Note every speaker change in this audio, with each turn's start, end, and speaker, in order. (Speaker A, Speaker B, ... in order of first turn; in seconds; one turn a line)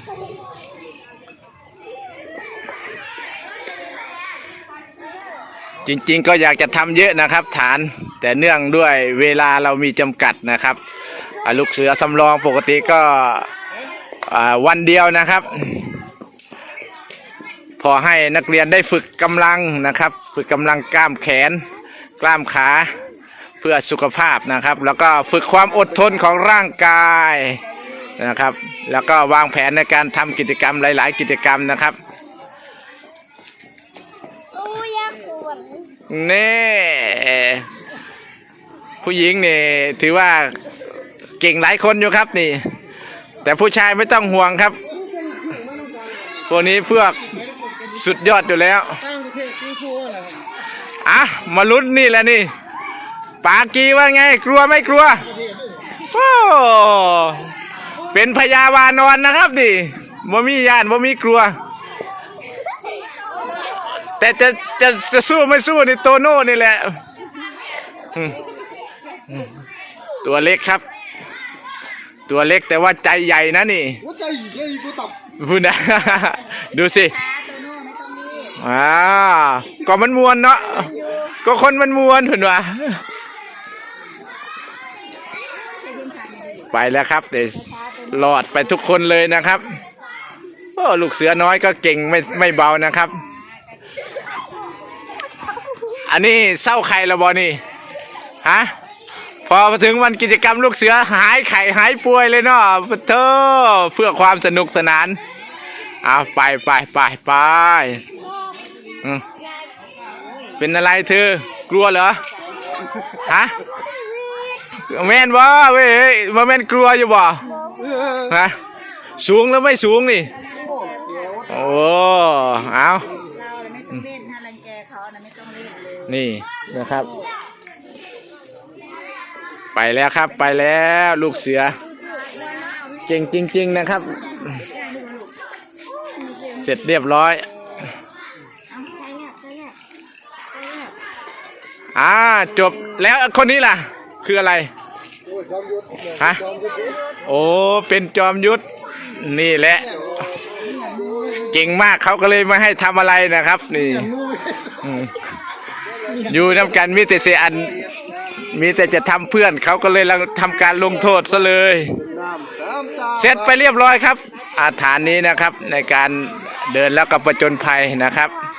Speaker A: 5.8-10.8
Speaker A: 11.4-13.5
Speaker A: 14.3-15.9
Speaker A: 17.8-21.6
Speaker A: 22.2-22.9
Speaker A: 23.6-27.6
Speaker A: 28.2-32.0
Speaker B: 34.5-35.8
Speaker A: 36.1-37.6
Speaker A: 39.0-40.6
Speaker A: 41.4-42.7
Speaker A: 43.4-44.8
Speaker A: 46.5-47.2
Speaker A: 47.9-49.0
Speaker A: 51.0-52.5
Speaker A: 53.4-55.3
Speaker A: 56.1-57.5
Speaker A: 58.1-61.5
Speaker A: 64.2-67.0
Speaker A: 70.2-70.8
Speaker A: 72.3-74.0
Speaker C: 74.1-75.1
Speaker A: 75.4-77.1
Speaker B: 77.0-78.5
Speaker A: 78.6-80.9
Speaker B: 80.8-81.3
Speaker A: 81.4-83.0
Speaker B: 85.8-86.7
Speaker A: 86.7-89.6
Speaker B: 87.8-88.1
Speaker A: 90.8-93.2
Speaker A: 96.1-97.6
Speaker A: 98.4-98.7
Speaker A: 99.5-105.2
Speaker A: 106.0-108.0
Speaker A: 110.6-112.2
Speaker A: 113.2-113.5
Speaker A: 114.9-117.4
Speaker B: 117.5-118.0
Speaker A: 118.3-118.6
Speaker A: 119.2-120.3
Speaker B: 120.3-121.5
Speaker A: 121.5-123.1
Speaker B: 123.2-126.1
Speaker A: 126.1-127.1
Speaker A: 129.7-131.8
Speaker B: 131.8-133.0
Speaker A: 133.1-134.6
Speaker B: 134.5-135.3
Speaker B: 136.1-136.7
Speaker A: 136.6-137.4
Speaker B: 138.7-139.8
Speaker B: 140.5-140.9
Speaker A: 141.9-144.7
Speaker C: 145.4-146.8
Speaker A: 146.2-146.4
Speaker B: 146.4-147.2
Speaker A: 147.2-150.0
Speaker C: 150.7-151.4
Speaker A: 151.4-154.1
Speaker A: 154.8-155.3
Speaker A: 156.2-157.8
Speaker A: 158.5-162.0
Speaker C: 162.1-163.1
Speaker A: 163.1-168.4